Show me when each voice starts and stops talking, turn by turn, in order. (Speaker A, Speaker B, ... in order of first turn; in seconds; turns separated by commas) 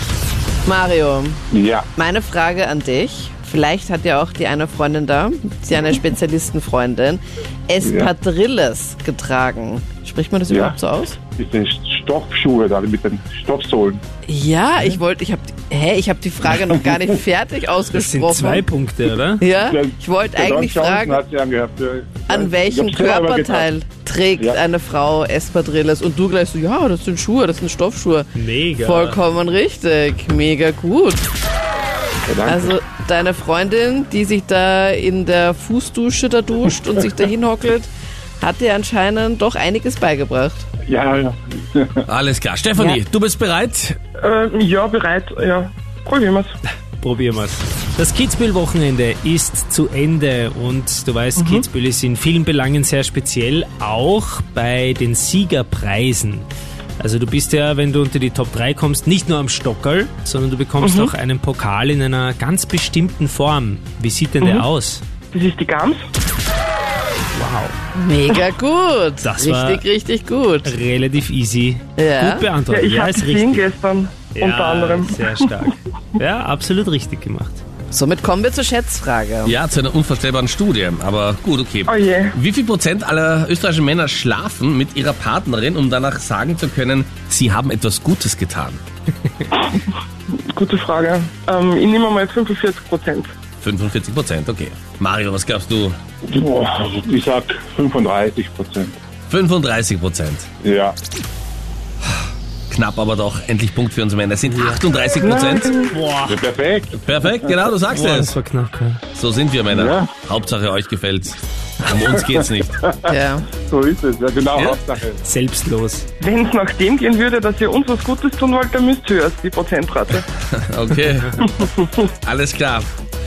Speaker A: 0.6-1.4, Speaker B: 1.5-1.9, Speaker A: 1.9-11.2, Speaker B: 7.8-8.1, Speaker B: 10.5-10.8, Speaker B: 11.3-14.0, Speaker A: 14.3-18.7, Speaker C: 17.9-19.4, Speaker A: 19.4-21.2, Speaker B: 19.6-23.7, Speaker A: 22.3-28.3, Speaker C: 28.3-29.2, Speaker A: 28.8-31.3, Speaker B: 32.3-32.7, Speaker A: 32.5-37.9, Speaker A: 38.4-40.6, Speaker B: 40.9-42.0, Speaker D: 42.1-44.0, Speaker E: 44.2-46.5, Speaker C: 47.0-56.5, Speaker E: 51.4-51.6, Speaker C: 57.0-65.0, Speaker E: 60.8-61.1, Speaker E: 64.4-64.7, Speaker E: 65.3-66.0, Speaker C: 67.3-67.8, Speaker A: 67.9-70.7, Speaker C: 69.2-69.8, Speaker C: 70.6-73.7, Speaker A: 72.0-72.5, Speaker E: 72.7-75.7, Speaker C: 74.2-77.6, Speaker A: 77.9-79.6, Speaker D: 79.5-88.8, Speaker E: 81.9-82.3, Speaker E: 90.3-93.3, Speaker D: 93.6-96.0, Speaker B: 96.2-99.0, Speaker D: 99.3-100.5, Speaker B: 100.6-100.9, Speaker D: 102.7-105.8, Speaker C: 104.5-104.8, Speaker E: 105.2-106.0, Speaker C: 105.9-106.4, Speaker B: 106.2-107.5, Speaker D: 106.9-108.3, Speaker C: 107.8-109.0, Speaker D: 109.1-112.8, Speaker B: 109.7-110.1, Speaker B: 112.0-115.2, Speaker A: 113.0-113.5, Speaker D: 114.5-114.8, Speaker C: 115.2-116.0, Speaker E: 116.2-120.2, Speaker D: 120.5-122.9, Speaker E: 121.4-121.9